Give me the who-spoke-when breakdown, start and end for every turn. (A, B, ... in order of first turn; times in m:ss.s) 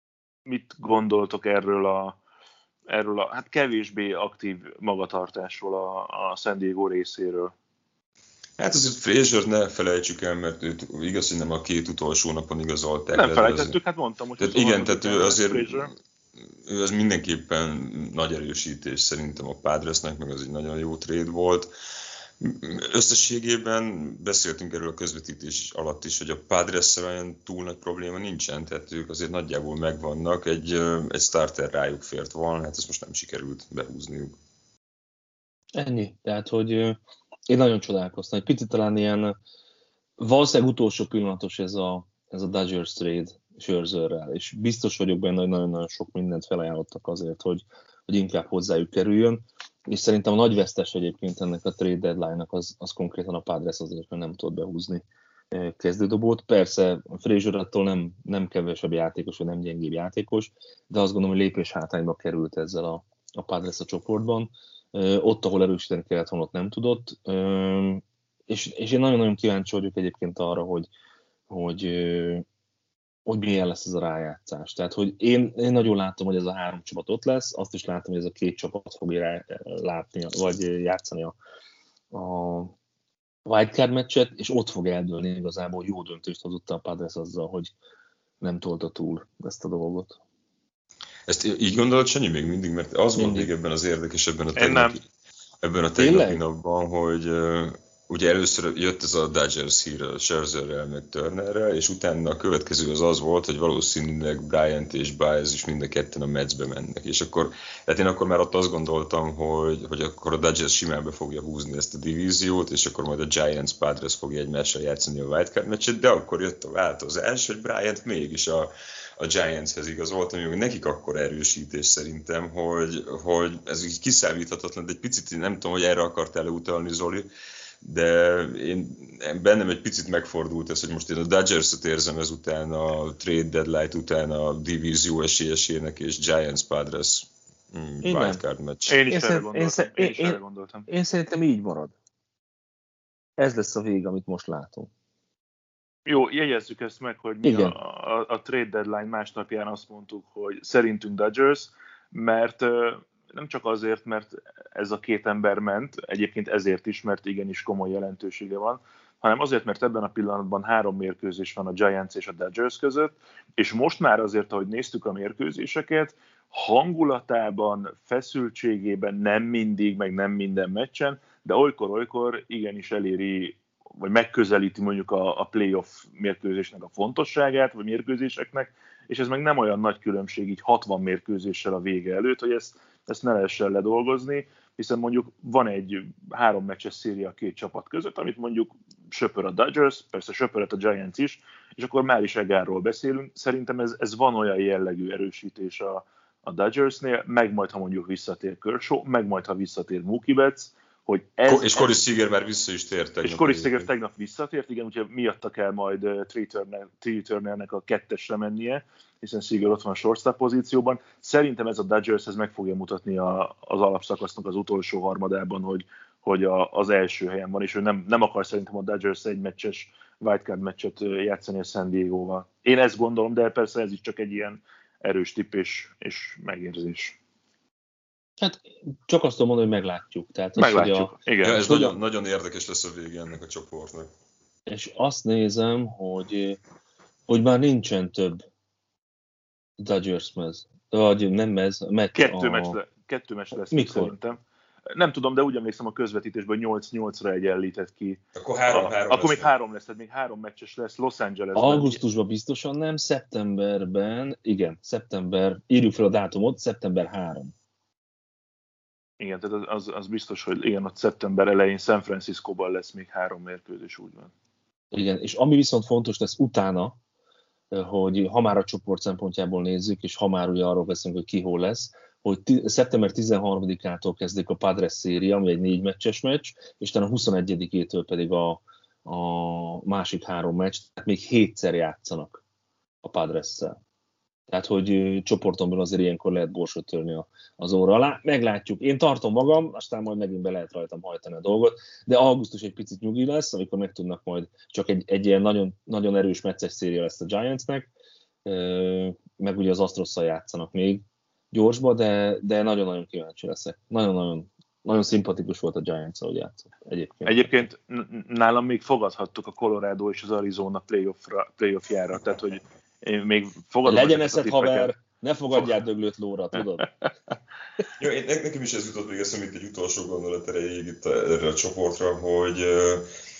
0:00.5-0:02.2 A
0:02.9-0:07.5 A
0:08.6-0:13.8 B
0:13.1-0:15.9 A
0:14.4-0:15.9 B
0:16.6-0:21.7 B
0:22.4-0:34.4 B
0:35.7-0:39.4 C
0:40.2-1:10.9 C
1:11.5-1:12.4 C
1:13.2-1:21.4 C
1:22.1-1:22.7 C
1:23.4-1:27.7 C
1:28.4-1:30.2 C
1:31.3-1:35.0 B
1:33.1-1:33.5 C
1:34.6-1:35.0 A
1:35.6-2:07.3 B
1:36.0-1:36.4 C
2:07.8-2:19.0 B
2:18.0-2:18.4 C
2:18.9-2:20.9 A
2:19.1-2:21.9 C
2:23.4-2:24.9 C
2:26.0-3:21.9 A
2:27.4-2:27.7 C
3:21.5-3:23.9 B
3:23.2-3:47.2 A
3:48.4-3:51.1 C
3:50.6-3:51.8 A
3:51.4-3:54.1 B
3:51.6-3:51.9 C
3:54.7-3:56.6 C
3:57.3-3:58.4 C
3:59.8-4:02.8 C
4:02.1-4:04.4 A
4:03.7-4:04.1 C
4:04.9-4:12.0 A
4:08.3-4:09.5 B
4:11.6-4:17.5 C
4:19.2-4:24.3 A
4:24.9-4:27.0 C
4:27.7-4:42.4 C
4:43.0-4:43.8 C
4:44.5-4:57.9 C
4:58.4-5:07.5 C
5:07.2-5:14.9 A
5:13.8-5:16.9 C
5:18.0-5:23.1 B